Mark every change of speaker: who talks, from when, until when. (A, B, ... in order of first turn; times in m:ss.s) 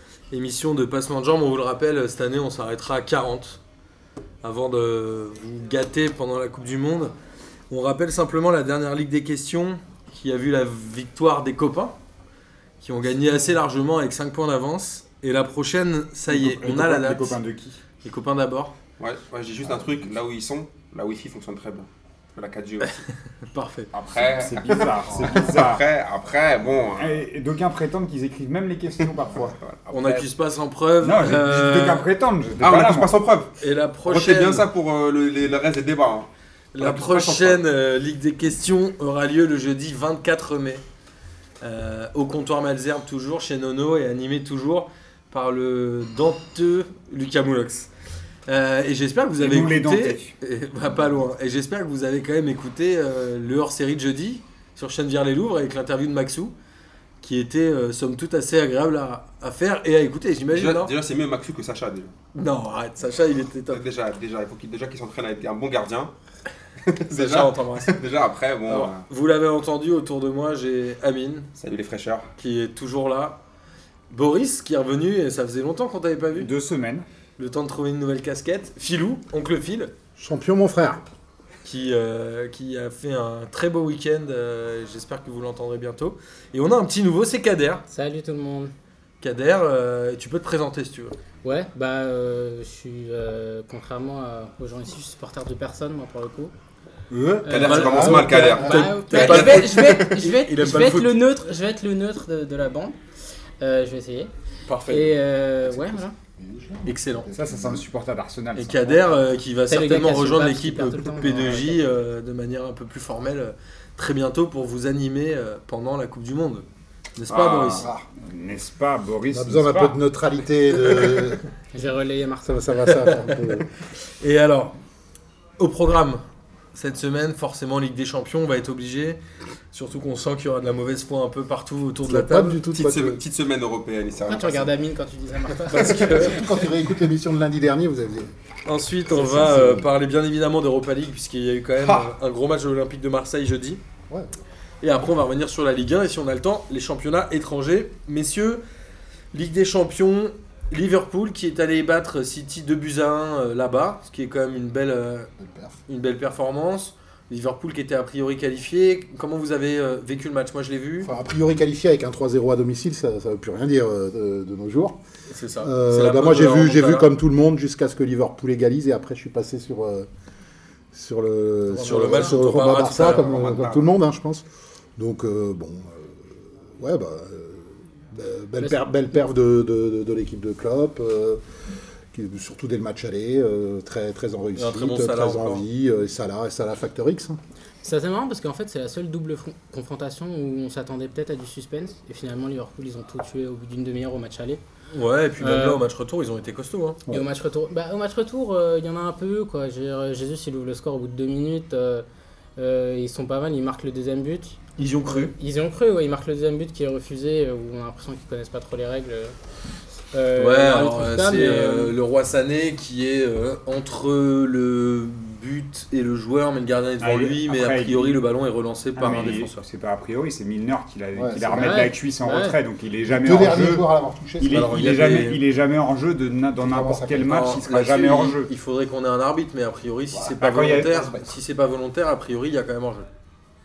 0:00.3-0:03.6 A
0:04.4-0:07.1 A
0:07.7-0:12.0 A
0:12.8-0:17.4 A
0:16.3-0:17.8 B
0:18.0-0:18.7 A
0:19.0-0:23.0 C
0:22.8-0:23.9 A
0:23.9-0:27.2 C
0:24.1-0:25.8 B
0:27.0-0:30.3 B
0:29.3-0:29.9 C
0:29.9-0:32.0 A
0:31.0-0:33.1 B
0:32.6-0:33.5 C
0:33.6-0:34.6 A
0:34.0-0:37.6 C
0:36.7-0:40.8 A
0:41.6-0:47.9 A
0:48.5-0:56.5 A
0:49.4-0:50.3 B
0:57.2-1:00.9 A
1:00.5-1:02.1 C
1:02.3-1:03.8 A
1:03.7-1:06.1 C
1:06.8-1:09.0 C
1:07.1-1:07.9 A
1:08.7-1:11.5 A
1:11.6-1:12.3 C
1:12.4-1:13.4 A
1:14.1-1:16.5 A
1:16.4-1:17.0 B
1:17.4-1:19.9 A
1:20.2-1:21.0 D
1:21.6-1:27.8 A
1:27.9-1:28.7 E
1:29.2-1:31.2 A
1:31.4-1:36.5 E
1:37.1-1:38.9 D
1:37.4-1:43.0 E
1:37.4-1:40.2 C
1:37.5-1:41.2 A
1:43.6-1:44.3 E
1:44.7-1:45.1 A
1:44.9-1:46.2 E
1:45.7-1:47.8 D
1:46.8-1:47.3 A
1:47.3-1:49.2 B
1:48.5-1:56.6 A
1:49.7-1:51.8 E
1:57.2-1:57.9 A
1:57.3-2:00.0 B
1:57.8-1:58.0 D
1:59.3-2:01.5 D
2:01.7-2:03.0 E
2:02.5-2:03.7 D
2:04.2-2:04.7 A
2:05.6-2:06.2 A
2:06.7-2:09.2 A
2:09.7-2:12.6 A
2:12.1-2:13.2 D
2:12.7-2:14.7 C
2:14.2-2:16.4 E
2:15.7-2:16.4 A
2:15.7-2:18.3 D
2:18.6-2:23.8 A
2:19.1-2:19.9 D
2:21.8-2:22.0 C
2:24.8-2:28.6 A
2:29.3-2:35.3 A
2:35.4-2:35.8 D
2:35.9-2:41.1 A
2:41.0-2:45.0 D
2:45.3-2:47.1 A
2:45.6-2:50.1 D
2:50.9-2:54.4 D
2:51.7-2:53.9 A
2:52.0-2:52.3 E
2:55.0-2:56.2 D
2:56.8-3:01.4 D
2:58.6-2:58.9 E
3:02.1-3:07.4 D
3:04.5-3:05.6 A
3:07.8-3:14.6 E
3:14.9-3:17.0 A
3:15.4-3:15.8 E
3:17.1-3:22.0 E
3:22.6-3:29.4 E
3:24.8-3:25.3 A
3:30.1-3:31.9 E
3:30.4-3:39.6 A
3:37.0-3:38.2 B
3:39.0-3:43.9 B
3:41.1-3:41.8 D
3:41.5-3:42.6 E
3:43.0-3:44.6 D
3:44.4-3:48.5 B
3:44.5-3:45.4 A
3:46.6-3:47.6 D
3:47.3-3:53.1 A
3:50.1-3:51.3 D
3:50.4-3:51.1 B